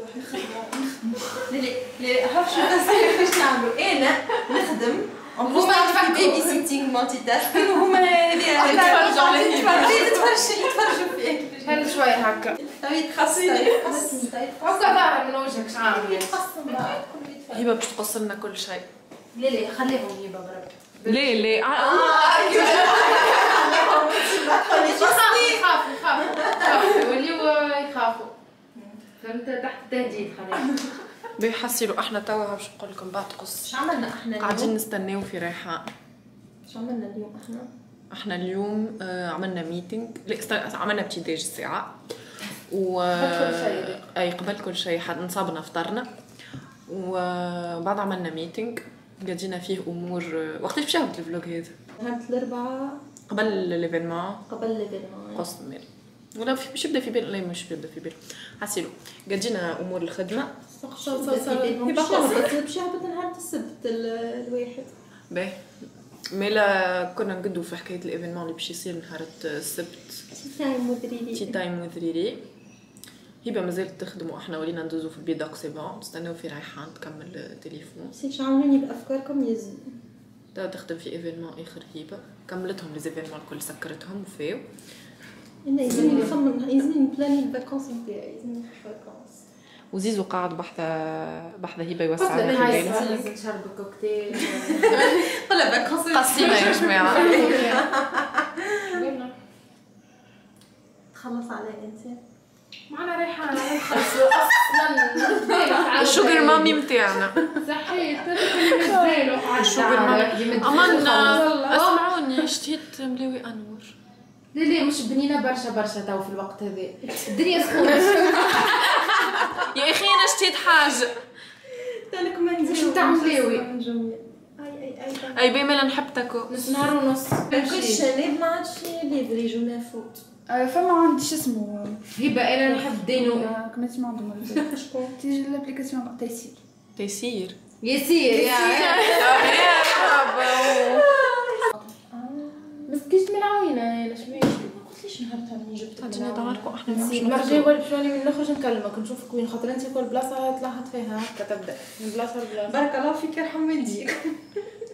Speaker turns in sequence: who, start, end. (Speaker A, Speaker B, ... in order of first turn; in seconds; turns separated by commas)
Speaker A: 0.3-0.9, Speaker B: 1.3-12.0, Speaker C: 5.4-6.7, Speaker D: 8.4-10.6, Speaker C: 8.5-10.3, Speaker C: 11.6-12.6, Speaker B: 12.6-15.1, Speaker C: 13.9-16.4, Speaker B: 15.6-17.7, Speaker D: 17.5-18.9, Speaker C: 19.3-28.3, Speaker D: 21.0-23.6, Speaker B: 22.7-25.6, Speaker C: 29.2-30.8, Speaker D: 31.4-33.7, Speaker B: 33.7-34.7, Speaker D: 34.4-35.9, Speaker B: 36.7-37.7, Speaker D: 38.1-42.0, Speaker D: 42.7-46.1, Speaker C: 43.1-44.0, Speaker D: 46.9-51.8, Speaker B: 52.0-53.0, Speaker D: 53.3-54.4, Speaker B: 54.5-55.5, Speaker D: 55.4-60.6, Speaker B: 60.7-64.9, Speaker C: 61.2-61.9, Speaker D: 61.4-62.5, Speaker D: 65.3-65.7, Speaker D: 66.3-70.2, Speaker B: 70.4-71.6, Speaker D: 71.3-72.5, Speaker D: 73.4-78.2, Speaker B: 78.1-80.0, Speaker D: 80.5-84.7, Speaker B: 85.6-89.4, Speaker C: 85.9-86.4, Speaker D: 89.9-93.3, Speaker C: 92.2-95.2, Speaker B: 92.4-93.3, Speaker B: 94.5-99.0, Speaker D: 96.1-97.8, Speaker C: 96.4-98.0, Speaker C: 98.8-99.3, Speaker B: 101.1-102.2, Speaker C: 102.9-106.9, Speaker B: 103.5-104.3, Speaker D: 105.5-107.6, Speaker C: 107.5-112.0, Speaker D: 108.4-114.0, Speaker B: 110.7-111.8, Speaker C: 114.5-119.6, Speaker D: 118.7-121.2, Speaker B: 121.7-125.5, Speaker C: 122.6-123.7, Speaker D: 125.3-126.6, Speaker C: 126.5-128.1, Speaker B: 126.5-130.2, Speaker A: 130.5-132.1, Speaker C: 132.2-133.6, Speaker A: 132.6-136.6, Speaker C: 134.4-134.8, Speaker D: 137.0-137.6, Speaker C: 137.8-141.3, Speaker B: 138.3-140.2, Speaker D: 138.6-141.1, Speaker B: 140.7-142.9, Speaker C: 142.9-144.4, Speaker B: 144.2-146.9, Speaker D: 146.0-147.7, Speaker C: 146.8-152.8, Speaker B: 152.7-154.6